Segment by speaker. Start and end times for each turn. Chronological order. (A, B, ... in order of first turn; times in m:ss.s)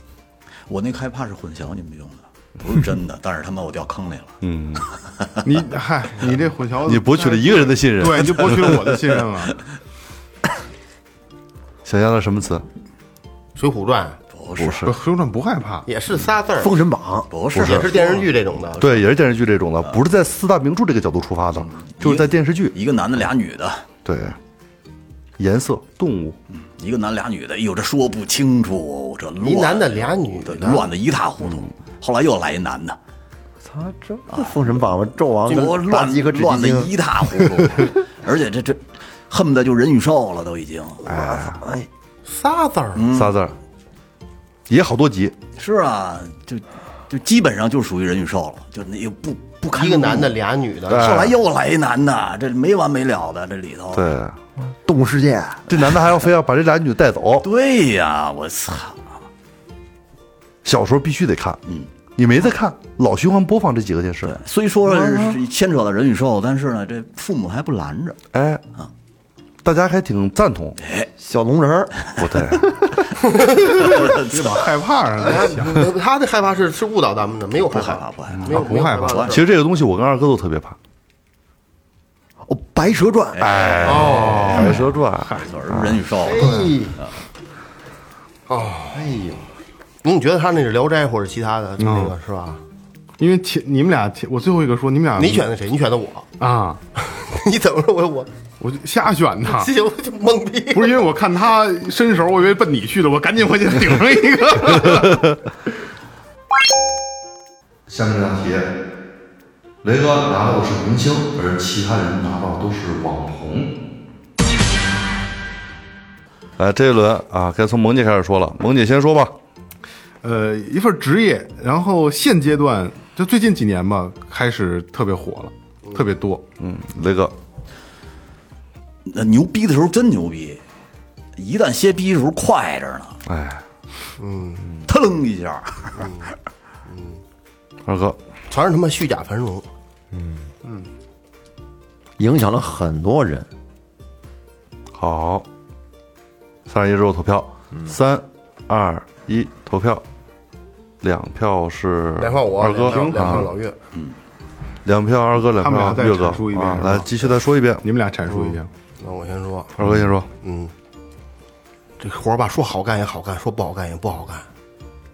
0:00.7-0:04.4 A
0:04.4-0:04.8 B
0:05.4-0:09.6 C
0:06.8-0:08.9 B
0:11.8-0:12.6 B
0:13.6-0:14.2 D
0:14.3-0:14.9 A
0:14.6-0:15.0 B
0:14.8-0:15.9 C
0:15.8-0:16.8 D
0:16.6-0:17.9 E
0:17.3-0:18.3 A
0:17.5-0:19.0 D
0:18.8-0:22.7 B
0:21.5-0:23.8 A
0:24.0-0:24.4 B
0:25.4-0:26.4 B
0:26.5-0:33.0 A
0:29.4-0:30.9 D
0:33.6-0:36.9 E
0:34.3-0:34.7 A
0:35.4-0:41.0 A
0:41.0-0:41.6 B
0:41.0-0:41.8 E
0:42.2-0:43.0 D
0:42.9-0:43.3 A
0:43.1-0:43.5 B
0:44.7-0:45.3 B
0:45.6-0:50.3 A
0:49.7-0:51.1 D
0:50.9-0:51.4 B
0:50.9-0:54.1 A
0:53.9-0:54.4 B
0:54.6-0:55.7 E
0:55.7-0:57.4 B
0:57.4-0:59.2 A
1:00.6-1:01.6 B
1:02.2-1:04.4 B
1:04.2-1:08.2 A
1:04.8-1:05.4 E
1:08.3-1:08.6 B
1:09.6-1:10.8 B
1:10.8-1:11.1 A
1:11.2-1:12.0 E
1:12.2-1:12.7 B
1:12.5-1:12.9 E
1:13.2-1:13.9 D
1:13.8-1:14.7 A
1:13.8-1:15.8 C
1:15.3-1:19.5 D
1:17.7-1:19.4 A
1:18.5-1:19.2 C
1:19.3-1:20.8 B
1:22.4-1:24.0 E
1:23.4-1:27.1 A
1:23.4-1:26.0 B
1:23.8-1:24.8 D
1:24.3-1:24.8 C
1:26.2-1:27.0 E
1:26.3-1:26.8 D
1:28.5-1:29.1 D
1:28.9-1:29.4 E
1:30.0-1:32.6 D
1:31.8-1:32.1 C
1:33.2-1:35.5 C
1:35.2-1:36.3 D
1:36.4-1:36.8 C
1:37.0-1:38.3 D
1:38.6-1:39.7 C
1:39.4-1:41.0 D
1:40.7-1:45.2 C
1:44.8-1:45.1 B
1:47.9-1:48.7 B
1:49.8-1:53.7 B
1:56.6-1:59.4 B
2:00.2-2:06.4 C
2:06.6-2:07.3 B
2:09.0-2:10.6 A
2:11.4-2:13.2 A
2:13.2-2:13.6 B
2:14.2-2:14.7 D
2:14.8-2:16.1 A
2:16.0-2:16.3 D
2:16.9-2:17.2 D
2:17.8-2:18.2 B
2:18.5-2:19.6 D
2:20.1-2:20.5 E
2:22.2-2:23.5 E
2:24.9-2:25.4 B
2:26.7-2:30.0 B
2:31.0-2:33.5 B
2:32.2-2:33.8 D
2:32.9-2:33.5 C
2:34.8-2:37.8 B
2:35.6-2:37.1 C
2:37.8-2:38.7 C
2:39.0-2:39.8 D
2:39.8-2:40.3 B
2:40.4-2:40.7 D
2:42.0-2:44.4 D